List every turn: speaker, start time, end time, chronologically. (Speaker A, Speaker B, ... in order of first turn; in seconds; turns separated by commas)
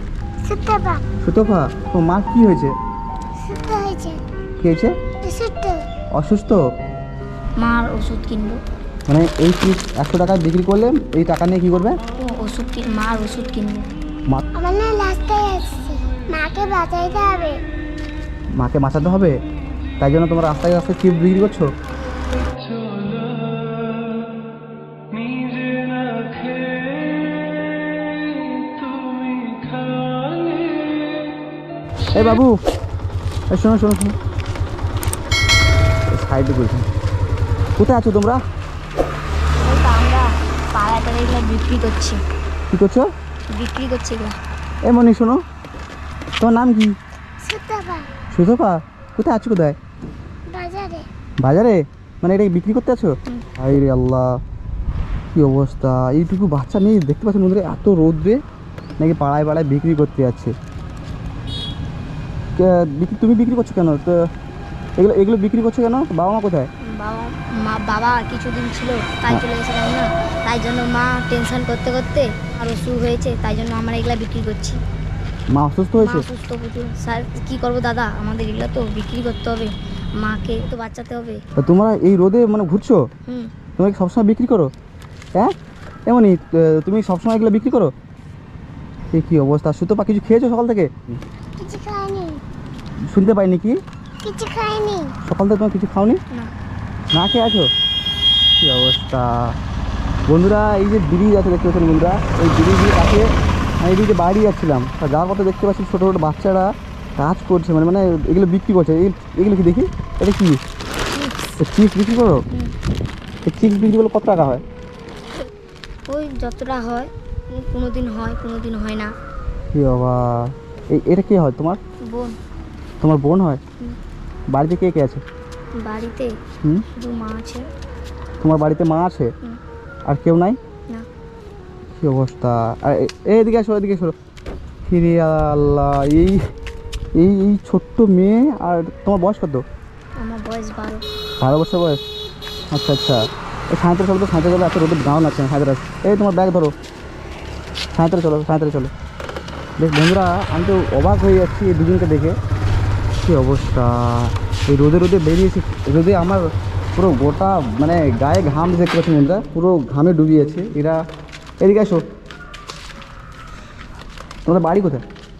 Speaker A: 0.5-1.0, Speaker B: 1.2-2.7, Speaker A: 3.4-4.2, Speaker B: 4.6-5.0, Speaker A: 5.2-5.8, Speaker B: 6.2-6.6, Speaker C: 7.6-8.6, Speaker B: 9.1-12.0, Speaker C: 12.2-13.9, Speaker A: 14.5-17.6, Speaker B: 18.6-19.4, Speaker B: 20.0-21.7, Speaker B: 32.1-32.6, Speaker B: 33.5-34.2, Speaker B: 36.1-36.9, Speaker B: 37.8-38.4, Speaker C: 39.6-42.2, Speaker B: 42.7-43.1, Speaker C: 43.5-44.4, Speaker B: 44.8-45.4, Speaker B: 46.4-47.0, Speaker A: 47.4-48.1, Speaker B: 48.3-49.8, Speaker A: 50.5-51.1, Speaker B: 51.4-54.4, Speaker B: 55.3-58.4, Speaker B: 59.0-60.5, Speaker B: 62.5-64.2, Speaker B: 65.0-66.7, Speaker C: 66.8-74.8, Speaker B: 75.5-76.3, Speaker C: 76.0-81.4, Speaker B: 81.6-83.0, Speaker C: 83.3-83.5, Speaker B: 83.8-84.7, Speaker B: 86.1-87.9, Speaker B: 89.1-91.2, Speaker A: 91.6-92.4, Speaker B: 93.1-93.8, Speaker A: 94.2-95.1, Speaker B: 95.2-96.2, Speaker B: 97.1-97.7, Speaker B: 98.6-99.6, Speaker B: 100.3-103.3, Speaker B: 103.8-110.6, Speaker C: 111.1-111.5, Speaker B: 111.6-112.4, Speaker C: 112.5-112.8, Speaker B: 113.5-114.6, Speaker C: 116.1-119.1, Speaker B: 119.7-121.8, Speaker C: 122.1-122.4, Speaker B: 123.0-123.6, Speaker B: 124.5-125.2, Speaker C: 125.8-126.3, Speaker C: 126.9-127.7, Speaker B: 128.4-129.3, Speaker B: 130.1-130.6, Speaker B: 132.0-134.1, Speaker B: 134.8-136.5, Speaker B: 137.1-139.6, Speaker C: 140.2-141.1, Speaker B: 141.4-142.0, Speaker B: 142.7-146.7, Speaker B: 147.9-148.9, Speaker B: 149.8-152.3, Speaker B: 153.2-156.4, Speaker B: 156.9-161.0, Speaker B: 161.6-162.0, Speaker B: 164.4-165.0